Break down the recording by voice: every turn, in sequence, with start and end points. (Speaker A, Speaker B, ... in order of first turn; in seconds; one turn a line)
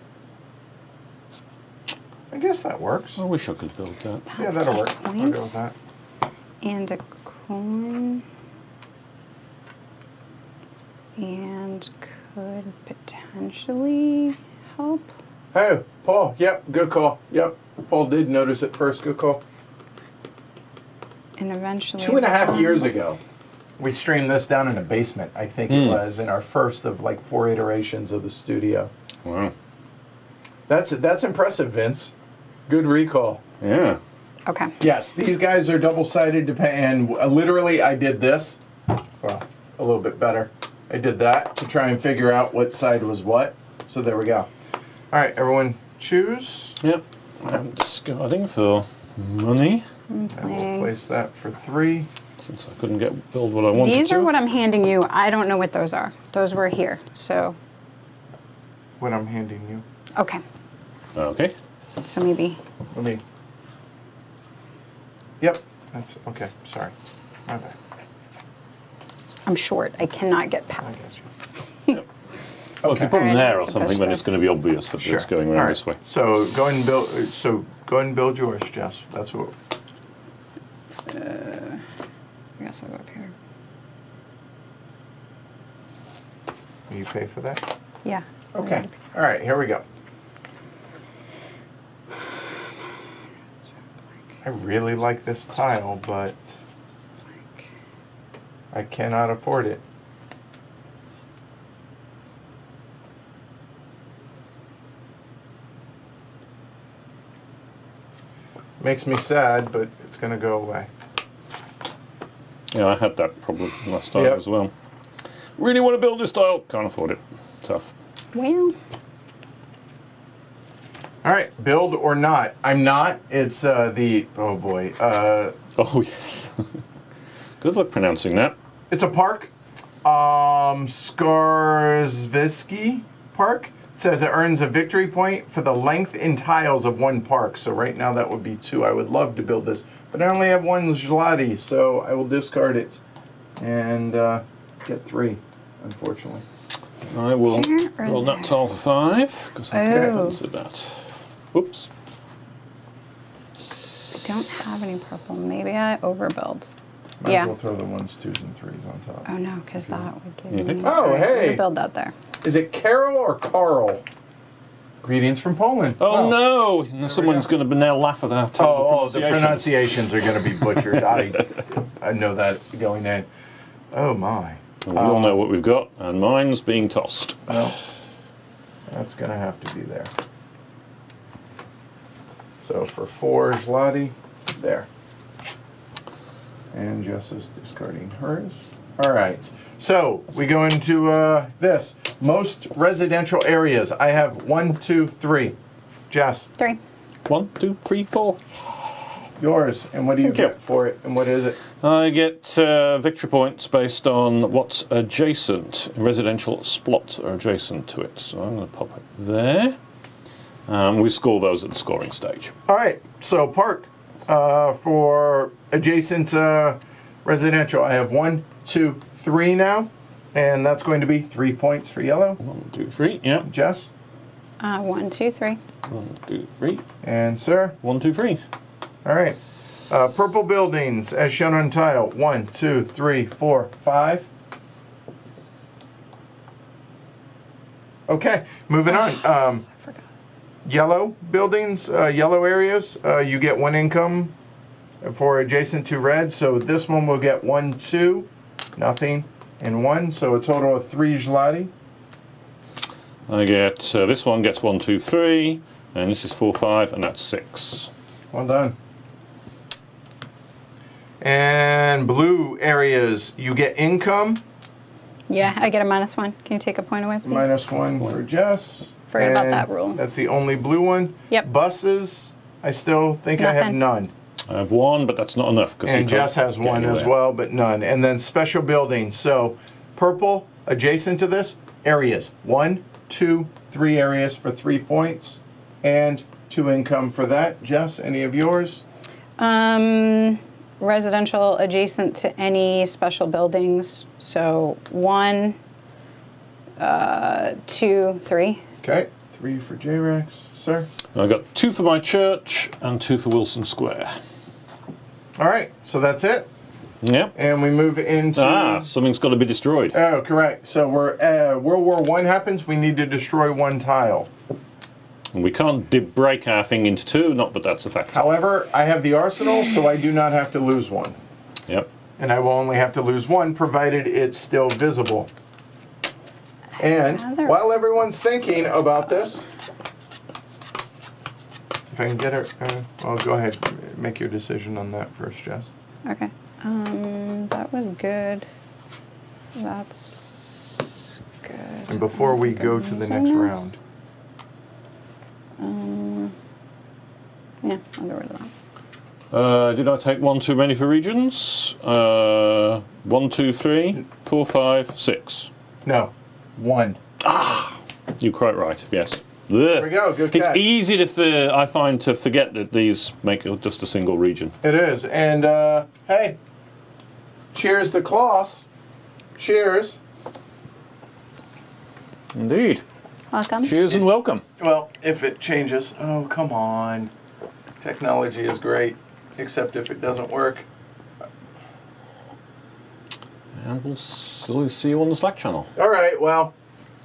Speaker A: 2.3-3.2
Speaker B: 3.2-4.2
Speaker C: 4.3-5.5
Speaker A: 4.4-5.7
Speaker C: 6.6-8.2
Speaker C: 11.2-15.1
Speaker A: 15.5-19.4
Speaker C: 21.4-22.9
Speaker A: 22.0-23.2
Speaker A: 23.8-28.9
Speaker B: 25.7-26.0
Speaker B: 29.2-29.5
Speaker A: 30.7-32.1
Speaker A: 32.7-33.4
Speaker B: 33.6-34.0
Speaker C: 34.5-34.7
Speaker A: 34.8-38.6
Speaker A: 39.2-44.5
Speaker A: 45.1-46.8
Speaker B: 46.8-49.8
Speaker C: 50.1-50.9
Speaker A: 50.3-52.1
Speaker B: 52.4-54.3
Speaker C: 53.7-57.6
Speaker A: 59.0-59.8
Speaker C: 60.2-60.4
Speaker B: 61.1-61.5
Speaker C: 62.0-62.6
Speaker A: 62.9-63.2
Speaker A: 65.4-66.9
Speaker A: 67.5-67.7
Speaker C: 69.5-71.1
Speaker A: 70.8-71.2
Speaker A: 72.8-73.1
Speaker B: 72.8-76.0
Speaker C: 72.8-74.4
Speaker A: 75.0-79.5
Speaker C: 81.1-81.8
Speaker C: 82.6-83.3
Speaker A: 86.9-87.7
Speaker C: 88.0-88.9
Speaker A: 88.5-89.8
Speaker A: 94.4-96.6
Speaker A: 98.7-99.8
Speaker A: 108.8-110.9
Speaker B: 112.7-114.7
Speaker A: 114.1-114.4
Speaker B: 115.6-117.9
Speaker C: 118.3-118.8
Speaker A: 121.2-125.5
Speaker B: 125.8-126.6
Speaker B: 127.6-128.6
Speaker A: 128.9-129.5
Speaker A: 130.0-143.0
Speaker A: 143.6-146.4
Speaker B: 147.0-151.9
Speaker C: 147.5-148.5
Speaker C: 149.7-150.4
Speaker A: 149.8-150.1
Speaker C: 154.2-156.7
Speaker A: 157.2-159.3
Speaker C: 157.2-157.5
Speaker C: 159.2-162.1
Speaker B: 160.5-161.0
Speaker A: 160.8-161.6
Speaker A: 162.4-164.0
Speaker A: 165.0-166.4
Speaker B: 166.0-171.4
Speaker A: 167.1-167.5
Speaker A: 168.6-173.3
Speaker A: 173.9-175.4
Speaker B: 174.8-177.7
Speaker A: 177.5-177.7
Speaker A: 178.9-180.1
Speaker A: 182.6-184.9
Speaker A: 186.7-195.6
Speaker A: 196.1-196.5
Speaker B: 197.2-199.2
Speaker A: 199.4-201.6
Speaker B: 200.2-200.5
Speaker B: 201.8-209.8
Speaker B: 210.7-212.5
Speaker A: 212.7-222.4
Speaker B: 222.4-223.5
Speaker A: 223.4-223.9
Speaker C: 224.6-225.6
Speaker B: 225.9-226.8
Speaker A: 227.0-227.8
Speaker B: 227.8-228.4
Speaker A: 229.0-234.3
Speaker A: 238.1-239.6
Speaker A: 240.6-244.3
Speaker A: 245.0-251.7
Speaker B: 253.3-257.9
Speaker A: 258.3-258.8
Speaker A: 261.2-264.4
Speaker C: 265.3-267.7
Speaker A: 267.2-274.1
Speaker C: 269.1-270.0
Speaker C: 273.4-273.8
Speaker B: 274.5-277.1
Speaker A: 275.9-288.8
Speaker C: 289.4-295.6
Speaker C: 296.8-298.6
Speaker A: 298.8-300.9
Speaker B: 301.1-304.1
Speaker A: 305.4-306.5
Speaker B: 307.0-307.3
Speaker A: 307.3-308.9
Speaker B: 308.4-310.0
Speaker A: 309.9-314.3
Speaker B: 315.3-318.3
Speaker A: 318.1-321.2
Speaker A: 322.2-325.3
Speaker A: 326.8-329.5
Speaker C: 327.1-327.6
Speaker A: 331.9-335.7
Speaker C: 336.1-338.4
Speaker C: 339.6-343.7
Speaker A: 341.9-343.8
Speaker C: 345.6-346.3
Speaker C: 347.6-348.5
Speaker B: 349.3-355.5
Speaker A: 355.8-357.0
Speaker B: 357.2-364.5
Speaker A: 359.8-360.6
Speaker A: 364.6-366.4
Speaker A: 367.5-368.7
Speaker A: 369.4-370.0
Speaker B: 372.3-372.8
Speaker C: 373.3-373.7
Speaker B: 373.6-374.4
Speaker A: 374.6-377.1
Speaker A: 377.8-380.6
Speaker B: 383.6-385.7
Speaker A: 385.8-386.5